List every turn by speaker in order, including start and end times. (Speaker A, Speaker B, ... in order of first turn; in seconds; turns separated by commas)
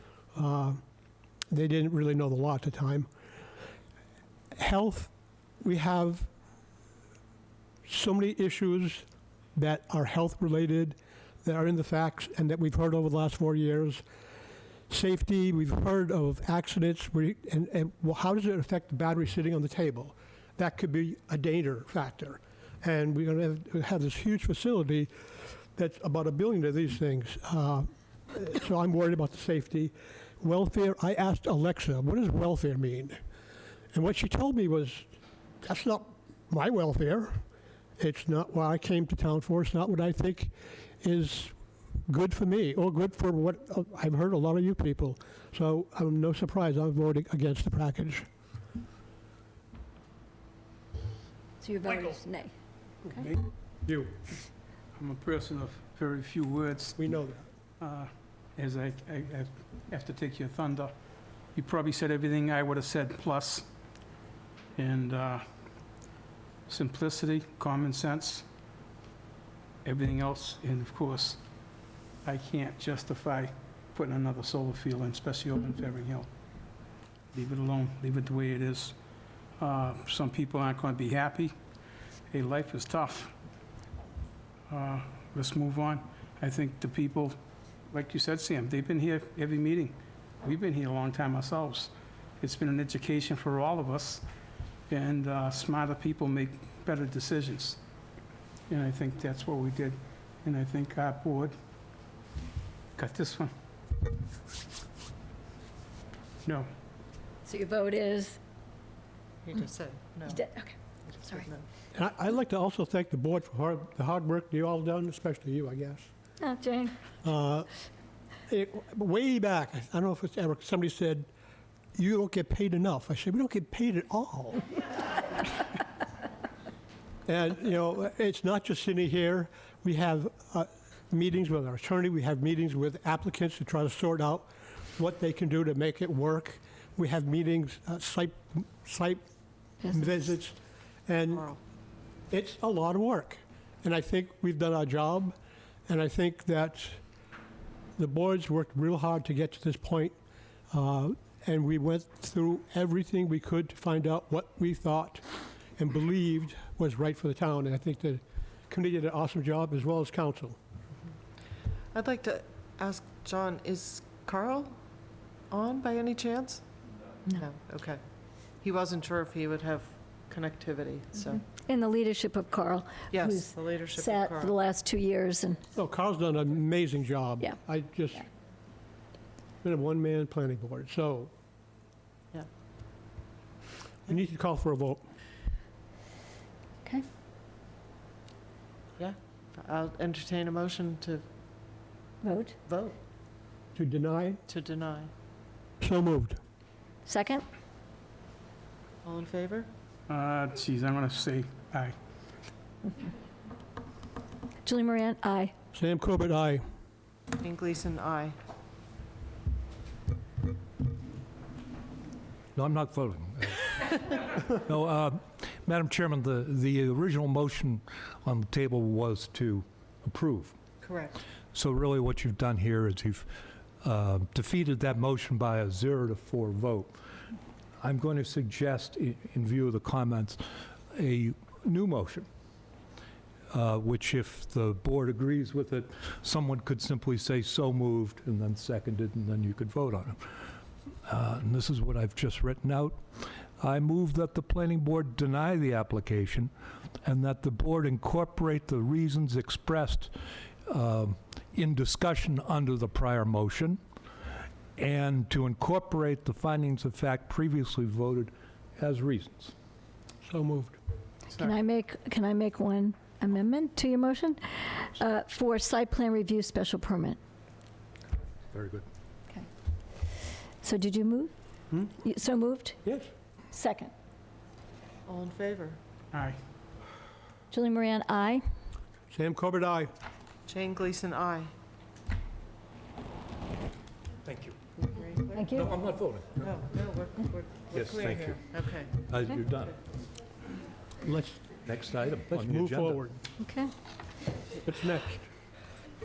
Speaker A: 0.3-0.8, Speaker A: 1.5-3.1, Speaker A: 4.5-5.1, Speaker A: 5.6-6.3, Speaker A: 7.9-14.0, Speaker A: 14.9-25.1, Speaker A: 25.7-33.2, Speaker A: 33.9-35.1, Speaker A: 35.6-37.4, Speaker A: 38.0-41.5, Speaker A: 42.1-48.3, Speaker B: 51.6-52.5, Speaker C: 53.0-54.0, Speaker C: 55.0-57.1, Speaker A: 57.0-57.5, Speaker C: 57.8-60.9, Speaker C: 61.5-63.7, Speaker C: 64.8-65.4, Speaker C: 66.7-68.5, Speaker C: 69.8-71.4, Speaker C: 72.2-76.3, Speaker C: 77.3-79.0, Speaker C: 79.6-81.5, Speaker C: 82.3-83.3, Speaker C: 84.7-87.4, Speaker C: 87.9-94.2, Speaker C: 94.9-97.8, Speaker C: 98.7-101.5, Speaker C: 103.0-103.5, Speaker B: 107.5-108.4, Speaker D: 109.5-110.4, Speaker B: 110.3-110.8, Speaker D: 111.1-111.7, Speaker A: 111.9-116.1, Speaker B: 116.4-117.0, Speaker A: 117.2-117.7, Speaker A: 118.5-121.3, Speaker A: 122.0-124.7, Speaker A: 127.3-139.2, Speaker B: 139.8-140.2, Speaker A: 139.8-140.6, Speaker A: 141.1-141.5, Speaker A: 142.3-145.3, Speaker A: 145.9-147.0, Speaker A: 148.0-150.1, Speaker A: 150.7-155.2, Speaker A: 155.8-160.6, Speaker D: 161.9-164.8, Speaker D: 165.5-166.6, Speaker D: 167.3-168.0, Speaker D: 168.6-171.4, Speaker B: 171.5-175.6, Speaker D: 173.1-174.5, Speaker A: 175.7-178.2, Speaker A: 179.6-181.3, Speaker A: 184.1-185.0, Speaker D: 189.0-191.2, Speaker B: 192.2-192.6, Speaker D: 192.7-193.0, Speaker A: 193.7-194.4, Speaker D: 194.5-195.1, Speaker A: 195.8-196.4, Speaker B: 197.1-197.4, Speaker D: 199.0-199.7, Speaker C: 200.1-201.9, Speaker B: 204.6-205.5, Speaker A: 205.7-206.6, Speaker D: 207.4-208.3, Speaker E: 212.5-220.5, Speaker D: 220.8-221.2, Speaker E: 221.5-223.3, Speaker E: 223.8-227.0, Speaker E: 227.8-232.3, Speaker E: 233.5-240.5, Speaker E: 241.1-246.5, Speaker E: 247.0-250.1, Speaker E: 250.7-253.8, Speaker E: 254.8-259.5, Speaker A: 260.2-260.8, Speaker B: 261.3-267.2, Speaker E: 268.5-268.9, Speaker B: 270.6-271.3, Speaker B: 272.0-272.8, Speaker B: 273.5-273.9, Speaker D: 275.1-275.8, Speaker C: 276.1-276.4, Speaker B: 277.5-278.4, Speaker A: 279.1-279.9, Speaker D: 280.5-281.5, Speaker E: 284.2-284.6, Speaker D: 284.8-285.7, Speaker B: 285.3-285.7, Speaker E: 285.5-286.5, Speaker D: 286.4-289.1, Speaker E: 287.7-289.8, Speaker A: 291.0-291.4, Speaker E: 291.6-293.0, Speaker A: 292.3-293.2, Speaker B: 293.4-293.7, Speaker A: 294.6-295.3